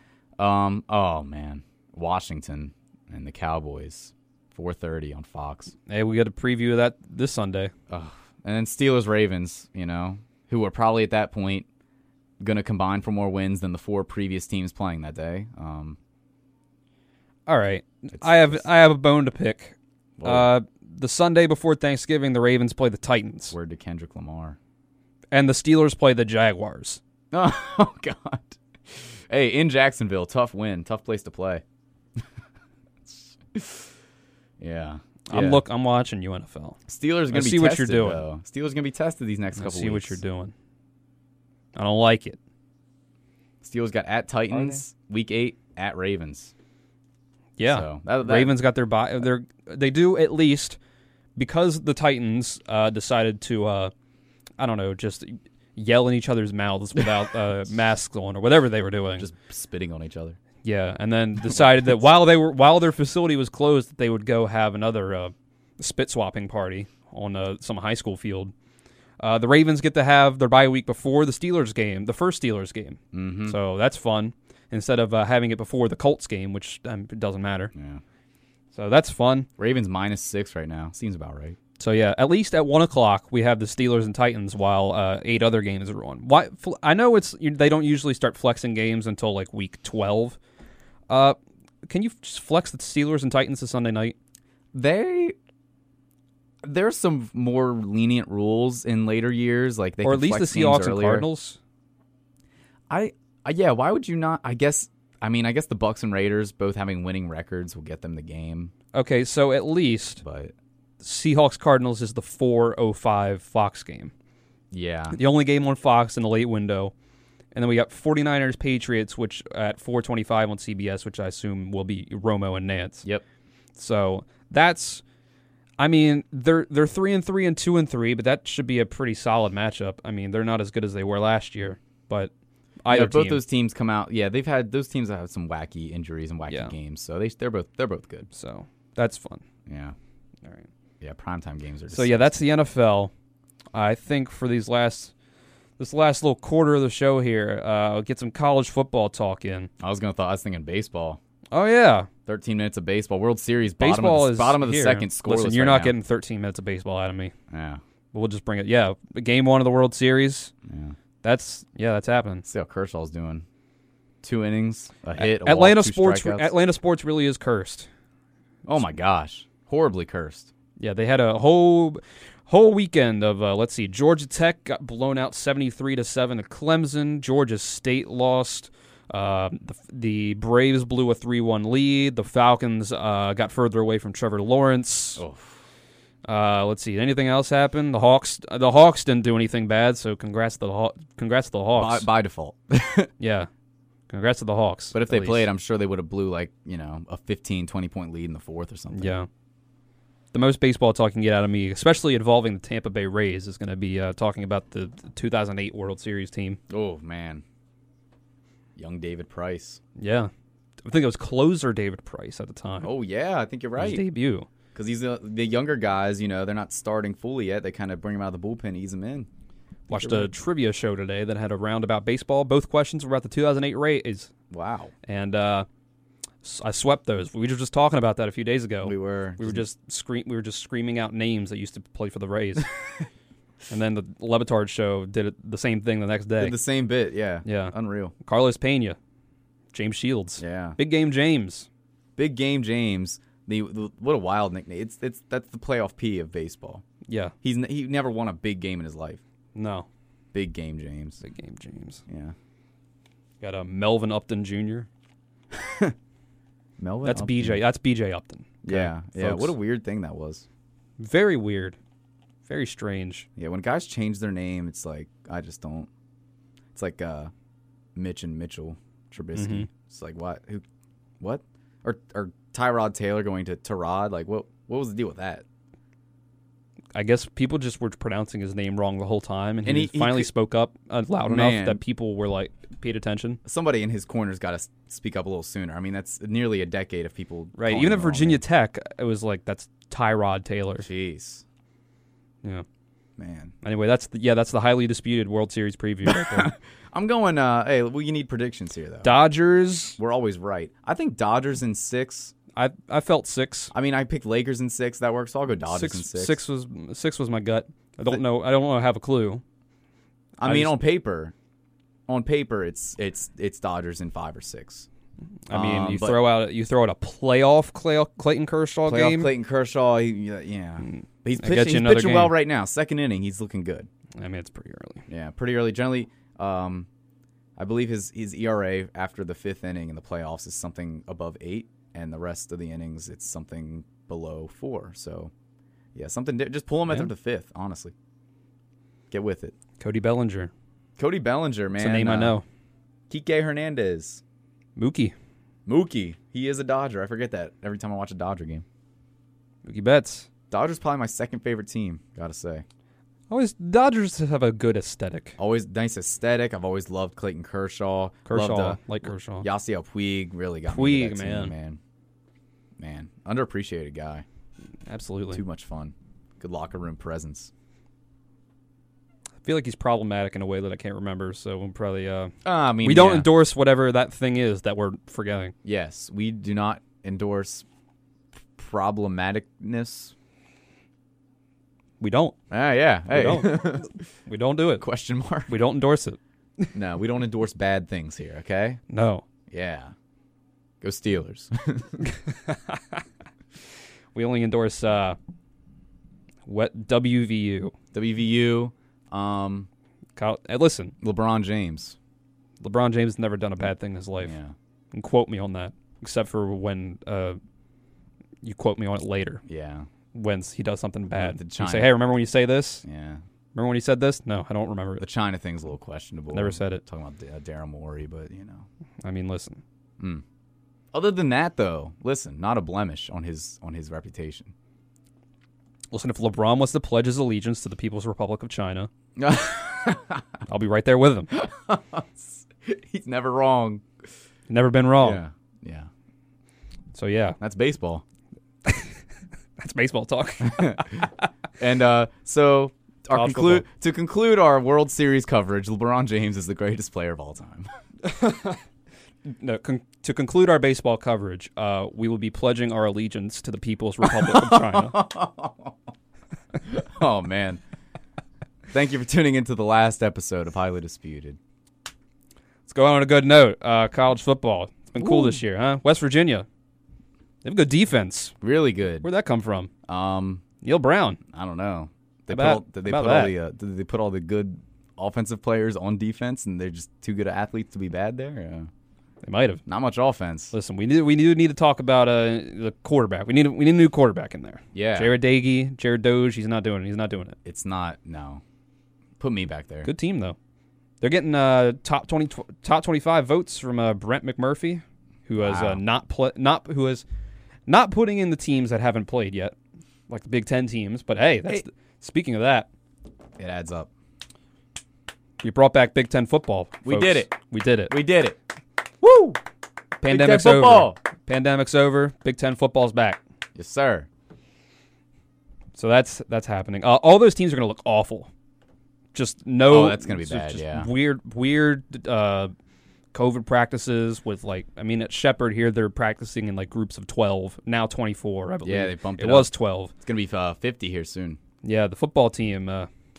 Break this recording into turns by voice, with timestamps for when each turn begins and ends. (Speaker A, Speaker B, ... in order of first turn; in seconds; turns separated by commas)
Speaker A: 0.4-5.7, Speaker B: 5.9-7.7, Speaker A: 7.9-11.7, Speaker A: 12.4-16.0, Speaker B: 17.5-23.6, Speaker A: 18.1-18.6, Speaker A: 20.2-20.5, Speaker A: 23.5-24.6, Speaker B: 25.3-27.0, Speaker A: 27.3-31.6, Speaker A: 33.1-33.9, Speaker A: 34.6-35.6, Speaker B: 35.3-36.8, Speaker A: 36.9-40.2, Speaker B: 37.3-38.2, Speaker B: 39.6-40.5, Speaker B: 41.8-42.4, Speaker A: 43.6-46.5, Speaker B: 44.5-44.8, Speaker B: 47.6-50.8, Speaker A: 47.7-48.5, Speaker B: 51.4-53.9, Speaker B: 54.6-59.3, Speaker A: 59.2-60.4, Speaker B: 60.6-68.5, Speaker B: 69.2-77.7, Speaker A: 73.1-73.6, Speaker A: 77.7-78.0, Speaker B: 78.7-79.5, Speaker A: 79.6-81.6, Speaker B: 81.8-90.4, Speaker B: 91.1-94.2, Speaker A: 94.7-95.3, Speaker A: 96.6-101.3, Speaker B: 100.0-101.6, Speaker A: 102.9-108.7, Speaker B: 108.9-110.2, Speaker A: 110.2-110.5, Speaker B: 111.0-114.1, Speaker A: 114.7-115.2, Speaker B: 115.1-116.9, Speaker B: 117.5-123.1, Speaker B: 123.8-125.0, Speaker B: 125.8-132.3, Speaker B: 132.8-133.4, Speaker A: 132.9-138.3, Speaker B: 136.5-136.7, Speaker B: 138.3-139.4, Speaker A: 139.7-139.9, Speaker A: 141.0-142.3, Speaker B: 141.9-143.1, Speaker B: 143.7-145.1, Speaker B: 145.8-149.7, Speaker A: 149.8-151.2, Speaker B: 151.5-152.1, Speaker A: 152.3-155.9, Speaker B: 153.8-157.3, Speaker A: 157.5-157.8, Speaker B: 158.1-160.5, Speaker A: 160.7-160.9, Speaker B: 161.2-162.5, Speaker A: 162.4-163.4, Speaker A: 164.2-166.5, Speaker B: 165.2-167.9, Speaker A: 168.7-170.5, Speaker B: 170.8-185.2, Speaker A: 185.2-185.6, Speaker B: 186.2-192.1, Speaker A: 191.8-193.1, Speaker B: 193.2-193.5, Speaker B: 194.1-195.5, Speaker A: 194.9-199.2, Speaker B: 198.9-199.3, Speaker B: 200.3-206.6, Speaker A: 206.7-207.4, Speaker A: 208.8-209.8, Speaker B: 210.0-210.3, Speaker B: 210.8-212.9, Speaker A: 212.8-214.0, Speaker B: 213.8-214.5, Speaker A: 214.8-219.3, Speaker A: 219.9-220.3, Speaker B: 219.9-224.3, Speaker A: 224.5-224.9, Speaker B: 225.1-225.7, Speaker B: 226.4-232.7, Speaker A: 228.8-229.7, Speaker B: 233.7-236.6, Speaker A: 236.4-238.1, Speaker B: 237.4-239.0, Speaker B: 239.7-241.7, Speaker A: 240.4-240.8, Speaker A: 242.2-246.8, Speaker B: 247.1-247.3, Speaker A: 247.4-249.2, Speaker B: 249.6-249.9, Speaker A: 250.3-251.2, Speaker B: 251.2-252.0, Speaker A: 252.1-252.3, Speaker B: 253.4-254.9, Speaker A: 255.5-255.9, Speaker A: 256.8-257.6, Speaker B: 257.1-259.6, Speaker A: 258.6-260.5, Speaker B: 261.0-261.8, Speaker B: 262.5-263.3, Speaker A: 263.4-265.9, Speaker A: 266.8-267.3, Speaker A: 268.0-270.6, Speaker B: 269.4-269.7, Speaker A: 271.2-275.4, Speaker B: 276.9-283.4, Speaker A: 279.6-280.3, Speaker A: 281.3-281.8, Speaker A: 283.4-288.4, Speaker B: 287.6-290.9, Speaker A: 290.8-291.4, Speaker A: 293.2-293.5, Speaker B: 293.6-296.5, Speaker A: 296.1-299.2, Speaker B: 299.0-300.0, Speaker A: 300.0-302.3, Speaker B: 302.6-303.7, Speaker A: 303.7-306.4, Speaker B: 305.7-309.4, Speaker A: 310.4-311.3, Speaker B: 310.4-310.8, Speaker A: 312.1-314.9, Speaker B: 315.5-319.3, Speaker A: 315.5-316.2, Speaker A: 318.9-323.9, Speaker B: 320.8-322.4, Speaker B: 324.2-325.1, Speaker A: 325.1-326.9, Speaker A: 327.6-335.3, Speaker A: 335.9-337.9, Speaker A: 339.1-339.6, Speaker B: 339.8-340.5, Speaker A: 341.0-342.4, Speaker B: 341.8-342.4, Speaker A: 343.1-344.2, Speaker B: 344.8-345.1, Speaker A: 345.7-348.6, Speaker B: 349.7-350.3, Speaker A: 350.5-352.6, Speaker B: 353.3-355.4, Speaker A: 355.4-358.8, Speaker B: 358.3-359.5, Speaker A: 359.4-361.8, Speaker B: 360.7-361.5, Speaker A: 362.8-364.2, Speaker B: 364.9-365.4, Speaker A: 365.3-367.5, Speaker B: 369.4-375.5, Speaker A: 372.4-373.3, Speaker A: 375.6-377.6, Speaker A: 378.6-380.1, Speaker B: 382.0-382.4, Speaker A: 382.5-384.0, Speaker B: 383.1-384.9, Speaker A: 384.8-385.5, Speaker B: 385.5-386.7, Speaker A: 386.7-388.8, Speaker B: 388.9-389.2, Speaker A: 389.5-389.9, Speaker A: 390.8-392.0, Speaker B: 392.1-393.0, Speaker B: 394.1-395.2, Speaker B: 396.5-397.7, Speaker A: 397.9-399.7, Speaker B: 400.2-400.9, Speaker A: 401.0-402.0, Speaker B: 402.6-404.4, Speaker A: 404.2-404.5, Speaker B: 404.9-407.4, Speaker B: 408.4-409.4, Speaker A: 409.5-409.9, Speaker B: 410.1-412.8, Speaker A: 411.1-411.9, Speaker A: 412.8-413.2, Speaker B: 413.6-415.0, Speaker A: 415.0-418.7, Speaker B: 416.3-416.8, Speaker B: 419.0-419.6, Speaker A: 420.9-424.5, Speaker B: 425.9-428.9, Speaker A: 429.2-430.2, Speaker B: 430.5-431.3, Speaker A: 431.3-433.9, Speaker B: 434.5-435.2, Speaker A: 435.0-435.9, Speaker B: 436.9-437.4, Speaker A: 437.4-438.0, Speaker B: 438.7-439.0, Speaker B: 439.6-441.3, Speaker A: 440.4-441.1, Speaker A: 441.6-447.7, Speaker B: 443.1-443.6, Speaker B: 448.0-448.6, Speaker B: 449.3-455.0, Speaker A: 454.0-455.8, Speaker A: 456.6-457.6, Speaker A: 458.7-461.4, Speaker B: 462.7-466.5, Speaker A: 465.0-465.4, Speaker B: 467.4-468.4, Speaker A: 468.4-469.1, Speaker B: 469.0-469.7, Speaker A: 469.9-470.4, Speaker B: 470.6-471.2, Speaker A: 471.3-478.7, Speaker B: 472.3-473.4, Speaker B: 479.2-479.6, Speaker A: 479.7-480.5, Speaker B: 480.5-487.4, Speaker A: 484.7-485.1, Speaker A: 487.4-488.4, Speaker A: 489.2-489.9, Speaker B: 489.8-490.4, Speaker B: 491.0-497.0, Speaker A: 495.4-495.8, Speaker B: 497.7-499.6, Speaker B: 500.1-502.7, Speaker A: 503.4-503.9, Speaker B: 505.4-507.9, Speaker A: 506.8-507.3, Speaker A: 507.9-508.4, Speaker B: 509.0-509.4, Speaker B: 510.0-513.2, Speaker A: 510.1-511.0, Speaker A: 513.5-514.1, Speaker B: 515.8-518.3, Speaker B: 519.1-522.5, Speaker A: 519.7-520.9, Speaker B: 523.1-529.9, Speaker A: 528.6-529.5, Speaker A: 530.0-531.4, Speaker B: 531.6-532.9